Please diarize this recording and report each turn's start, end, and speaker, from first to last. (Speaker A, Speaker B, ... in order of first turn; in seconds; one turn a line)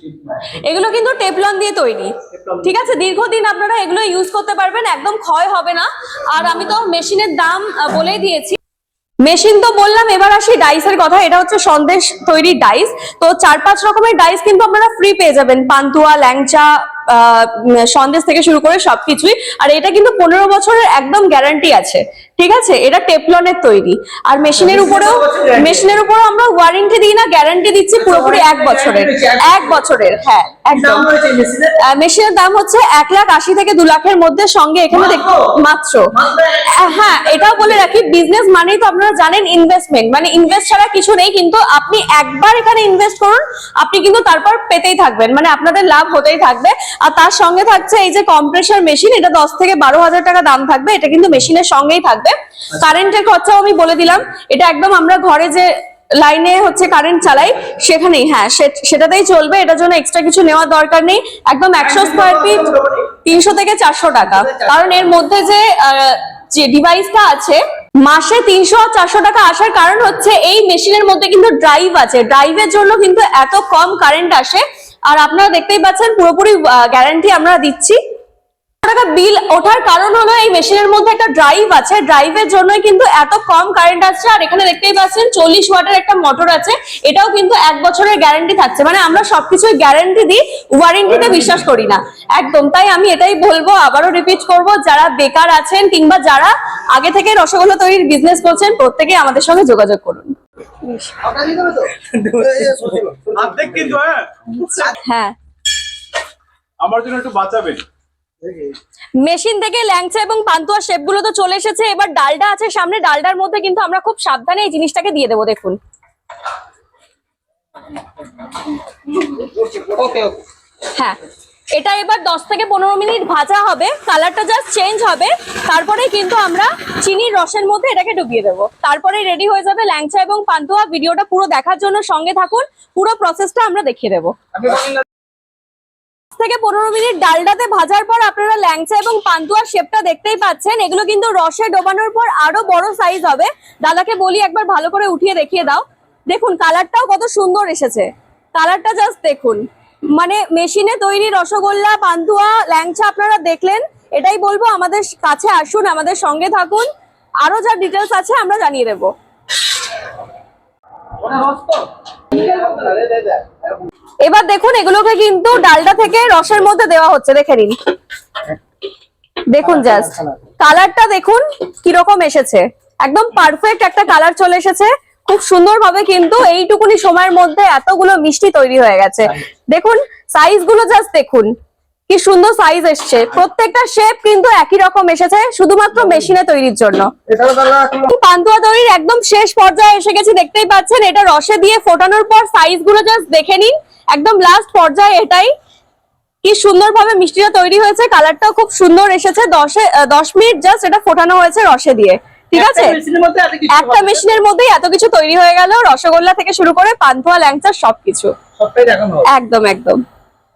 Speaker A: 0.5-8.6
Speaker A: 9.2-31.1
Speaker B: 24.6-25.9
Speaker B: 28.0-29.6
Speaker B: 30.7-31.8
Speaker A: 31.8-36.1
Speaker B: 34.9-35.5
Speaker B: 36.1-37.7
Speaker A: 36.6-78.0
Speaker B: 61.8-63.1
Speaker A: 78.8-101.3
Speaker B: 101.3-104.0
Speaker A: 102.1-102.7
Speaker C: 103.4-104.3
Speaker A: 104.5-105.4
Speaker C: 106.8-107.8
Speaker A: 109.2-115.8
Speaker B: 119.6-120.3
Speaker A: 120.9-121.2
Speaker A: 121.7-134.4
Speaker A: 136.4-149.6
Speaker A: 150.2-156.9
Speaker A: 157.4-159.1
Speaker B: 161.2-163.5
Speaker A: 164.2-167.8
Speaker A: 169.5-181.5
Speaker B: 169.8-170.3
Speaker A: 182.1-187.1
Speaker B: 187.3-188.1
Speaker A: 188.0-195.5
Speaker A: 196.4-203.0
Speaker B: 202.6-204.4
Speaker A: 203.7-208.3
Speaker B: 208.6-209.3
Speaker A: 209.3-210.0